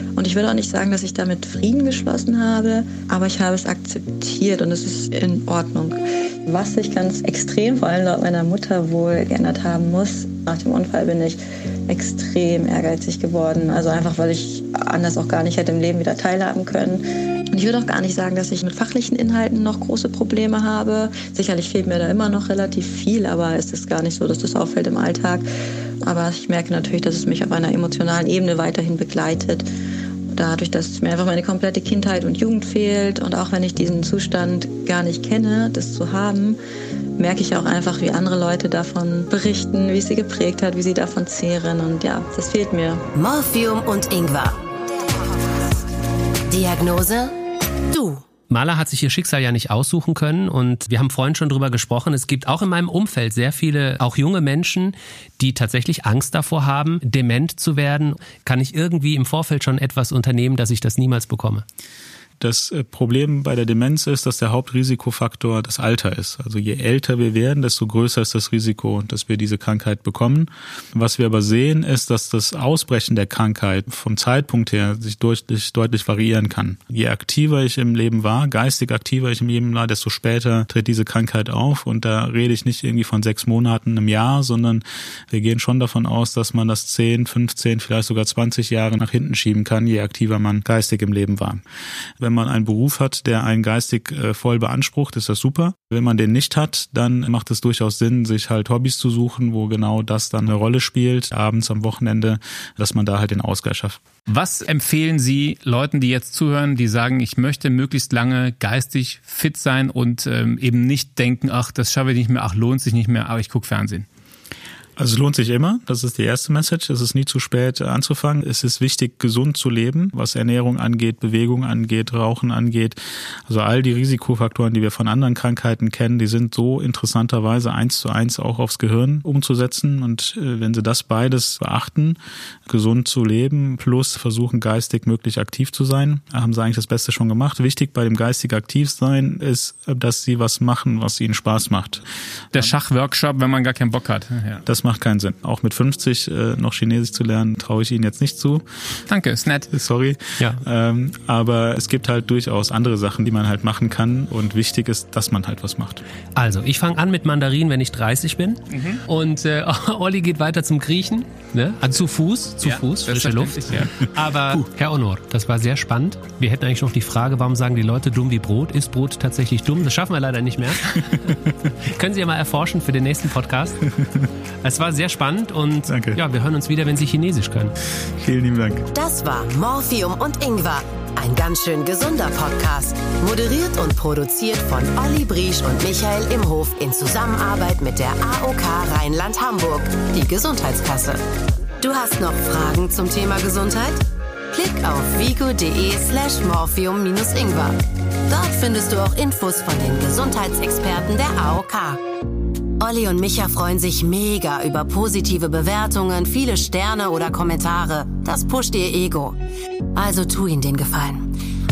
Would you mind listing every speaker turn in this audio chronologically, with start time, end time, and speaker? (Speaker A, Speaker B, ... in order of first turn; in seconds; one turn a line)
Speaker A: 0.1-25.4
Speaker A: 26.0-29.7
Speaker A: 30.3-36.6
Speaker A: 37.2-43.0
Speaker B: 43.1-44.5
Speaker B: 46.5-47.3
Speaker B: 47.9-48.2
Speaker C: 48.5-61.6
Speaker D: 62.4-91.6
Speaker D: 92.2-104.0
Speaker E: 104.3-114.0
Speaker D: 115.0-142.7
Speaker E: 142.5-144.6
Speaker D: 144.7-148.6
Speaker E: 149.1-149.7
Speaker D: 149.7-156.0
Speaker C: 156.3-171.3
Speaker E: 158.7-159.0
Speaker E: 162.6-164.0
Speaker C: 171.8-173.8
Speaker D: 174.0-174.3
Speaker C: 174.6-177.7
Speaker D: 175.9-176.2
Speaker D: 178.2-178.9
Speaker B: 178.9-191.2
Speaker B: 191.8-194.0
Speaker B: 194.5-197.8
Speaker B: 198.3-202.0
Speaker B: 202.8-209.4
Speaker B: 209.9-211.3